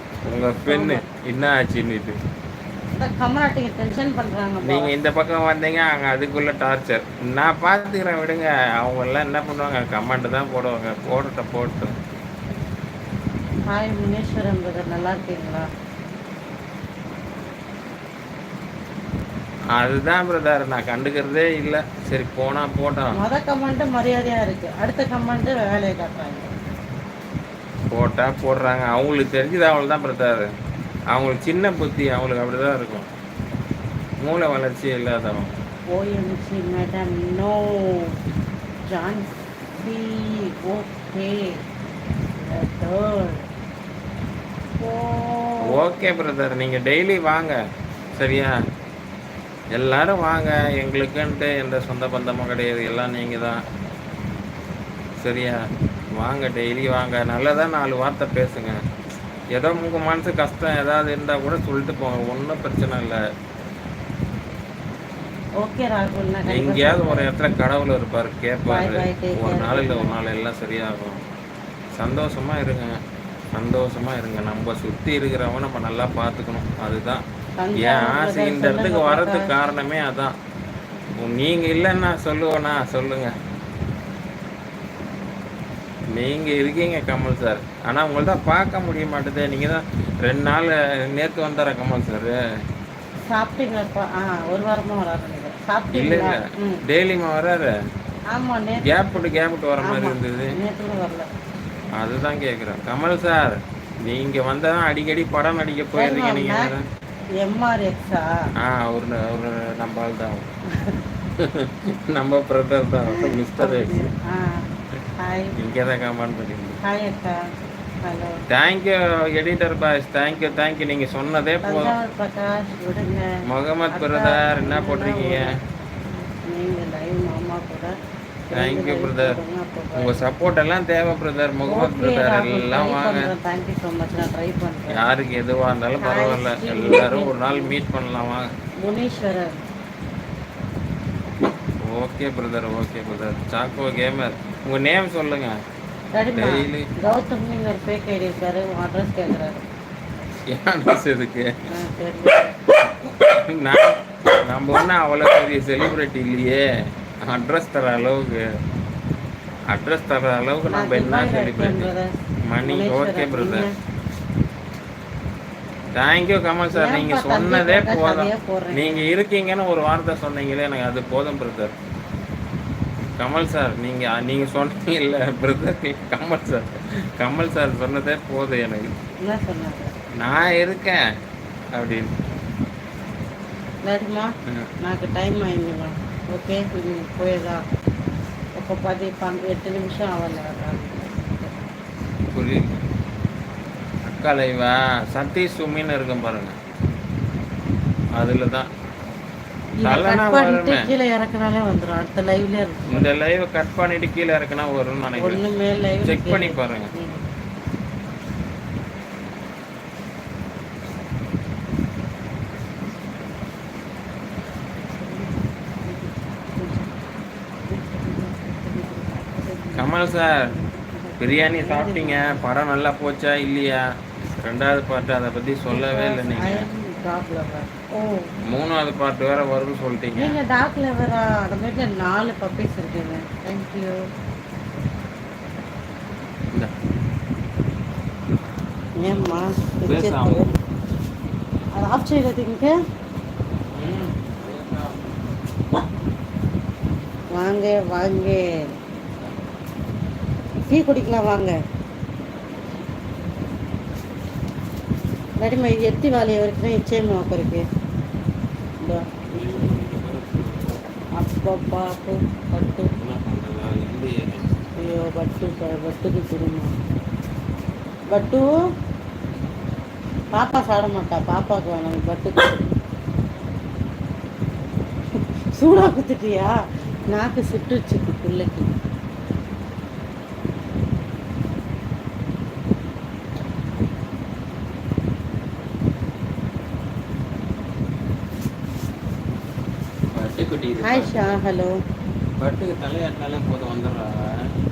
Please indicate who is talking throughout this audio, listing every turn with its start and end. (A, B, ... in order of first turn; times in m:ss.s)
0:00.3-0:02.1 A
0:00.7-0:01.0 B
0:03.0-0:04.9 B
0:04.6-0:11.9 A
0:13.7-0:15.7 B
0:19.8-0:23.1 A
0:23.1-0:26.6 B
0:27.9-0:30.5 A
0:31.1-0:33.1 A
0:34.2-0:35.5 A
0:35.9-0:38.1 B
0:38.9-0:41.5 B
0:42.4-0:43.4 B
0:44.8-0:45.8 B
0:45.6-0:47.6 A
0:48.2-0:48.5 A
0:49.7-0:53.6 A
0:55.2-0:55.6 A
0:56.2-0:58.7 A
0:59.5-1:03.2 A
1:05.6-1:07.3 B
1:06.5-1:11.2 A
1:08.7-1:10.2 B
1:12.0-1:12.9 A
1:13.6-1:17.2 A
1:17.6-1:19.5 B
1:17.8-1:20.3 A
1:21.2-1:23.3 A
1:26.1-1:32.3 A
1:33.3-1:36.8 B
1:35.9-1:37.7 A
1:38.3-1:38.9 B
1:38.9-1:40.5 A
1:39.8-1:41.3 B
1:42.0-1:46.8 A
1:45.9-1:46.7 B
1:47.4-1:48.3 B
1:48.6-1:50.4 A
1:51.4-1:54.1 A
1:53.1-1:54.6 B
1:55.2-1:55.5 B
1:55.5-1:56.8 A
1:56.8-1:57.4 B
1:58.0-1:58.4 B
1:58.5-2:01.9 A
2:01.6-2:03.3 B
2:03.5-2:05.5 A
2:03.9-2:05.5 B
2:06.5-2:07.9 B
2:08.5-2:10.1 B
2:08.6-2:09.4 A
2:10.0-2:13.3 A
2:11.6-2:15.0 B
2:14.9-2:18.5 A
2:16.0-2:17.7 B
2:18.8-2:19.6 B
2:21.9-2:25.5 A
2:26.1-2:29.6 B
2:26.4-2:26.9 A
2:30.5-2:31.5 A
2:31.7-2:32.5 B
2:33.0-2:33.9 A
2:34.5-2:36.6 A
2:37.3-2:38.4 A
2:39.7-2:41.9 A
2:40.7-2:43.7 B
2:42.5-2:43.7 A
2:46.0-2:51.7 A
2:46.7-2:49.1 B
2:53.2-2:58.9 A
2:59.2-2:59.9 B
3:00.2-3:01.0 A
3:01.7-3:02.1 A
3:03.8-3:04.3 B
3:04.8-3:07.6 B
3:08.6-3:11.6 B
3:12.3-3:12.8 A
3:14.0-3:16.5 A
3:18.2-3:18.7 A
3:19.8-3:23.1 B
3:19.8-3:20.9 A
3:22.9-3:25.4 A
3:25.1-3:27.2 B
3:26.0-3:26.9 A
3:34.8-3:36.9 B
3:37.7-3:42.4 B
3:39.8-3:40.4 A
3:41.2-3:43.8 A
3:44.3-3:46.7 A
3:45.7-3:48.3 B
3:48.5-3:50.4 A
3:50.2-3:54.0 B
3:59.0-4:00.4 B
3:59.8-4:00.5 A
4:01.7-4:02.8 B
4:03.7-4:05.1 A
4:07.3-4:08.4 B
4:10.7-4:11.6 B
4:15.4-4:17.6 B
4:18.8-4:19.7 B
4:19.3-4:20.8 A
4:21.2-4:22.9 B
4:23.0-4:24.6 A
4:24.8-4:26.7 B
4:28.1-4:28.5 B
4:30.3-4:32.7 B
4:35.6-4:36.5 B
4:37.1-4:38.7 B
4:50.1-4:51.3 A
4:50.8-4:51.7 B
4:52.4-4:54.0 A